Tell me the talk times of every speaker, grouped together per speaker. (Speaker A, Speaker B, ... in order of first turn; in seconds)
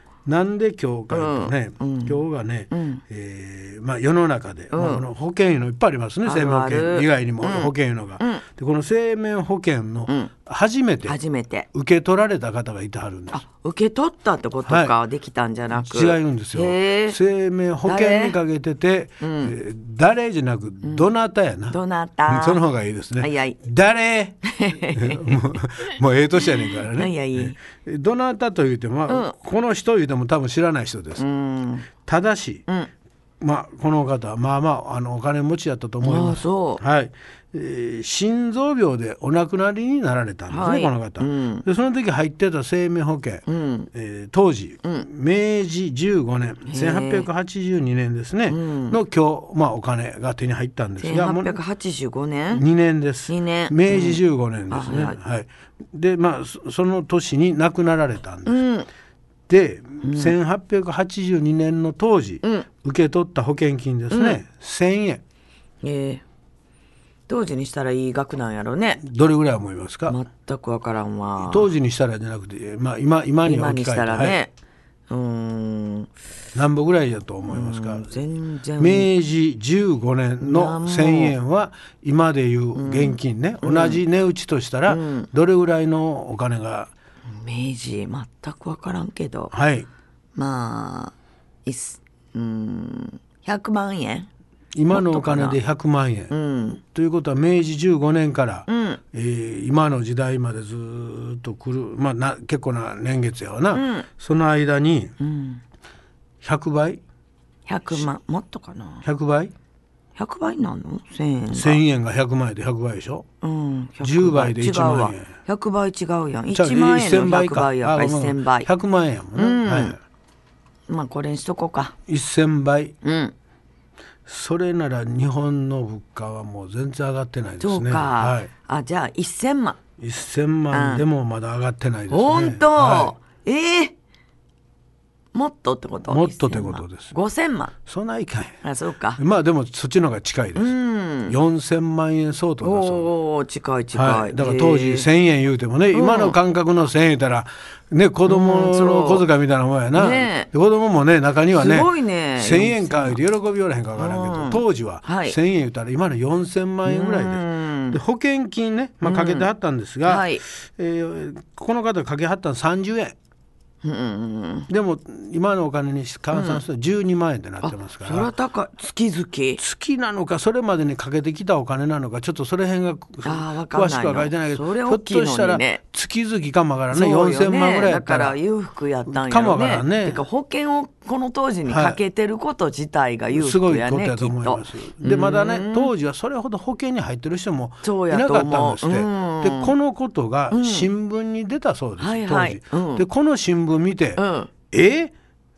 Speaker A: 0.2-11.2, 11.7-13.4, 14.7-14.9, 15.7-31.2, 32.0-32.6, 33.4-51.6, 52.5-58.7, 59.5-65.2, 69.0-70.2, 71.4-74.4, 76.5-78.2, 78.8-86.9, 89.5-89.9, 94.7-96.3, 96.8-105.2, 106.4-107.0, 109.0-109.5, 111.5-113.2, 114.0-115.3, 116.5-120.0, 122.1-122.9, 124.2-128.5, 130.0-133.1, 136.1-137.1, 137.8-138.6, 139.2-140.7, 141.2-143.1, 143.9-163.1, 164.7-168.3, 169.6-178.4, 179.1-180.2, 181.7-182.0, 183.3-195.1
Speaker B: 1.1-3.0, 4.7-5.0, 6.2-8.4, 11.1-11.7, 13.3-17.2, 17.8-18.4, 19.2-19.5, 21.7-22.6, 23.2-23.6, 24.4-27.6, 29.1-29.3, 31.2-31.9, 36.0-36.8, 40.5-41.6, 43.5-43.9, 46.7-47.3, 48.5-49.0, 51.0-52.6, 53.3-55.2, 58.5-58.9, 60.0-60.3, 62.4-62.7, 64.1-64.4, 65.8-66.2, 67.3-69.0, 70.1-71.7, 73.4-74.5, 75.1-76.1, 77.5-79.1, 80.4-81.4, 82.7-84.0, 84.9-85.3, 87.3-89.5, 90.3-91.1, 91.6-94.3, 94.9-95.6, 96.3-96.8, 98.7-99.0, 103.7-104.0, 105.2-105.6, 107.7-109.0, 110.2-111.8, 113.4-118.7, 119.3-120.0, 120.9-121.9, 123.0-123.3, 127.6-129.8, 130.7-131.0, 132.1-133.9, 135.3-137.7, 138.6-139.2, 140.5-141.3, 142.6-145.1, 145.9-146.4, 148.2-149.2, 149.9-150.5, 151.5-153.2, 154.0-155.3, 156.8-158.0, 159.0-159.5, 160.0-160.4, 163.8-164.7, 166.3-166.6, 167.6-169.6, 173.2-175.8, 176.9-185.9, 187.8-189.7, 190.5-190.9, 192.0-193.0, 194.2-194.5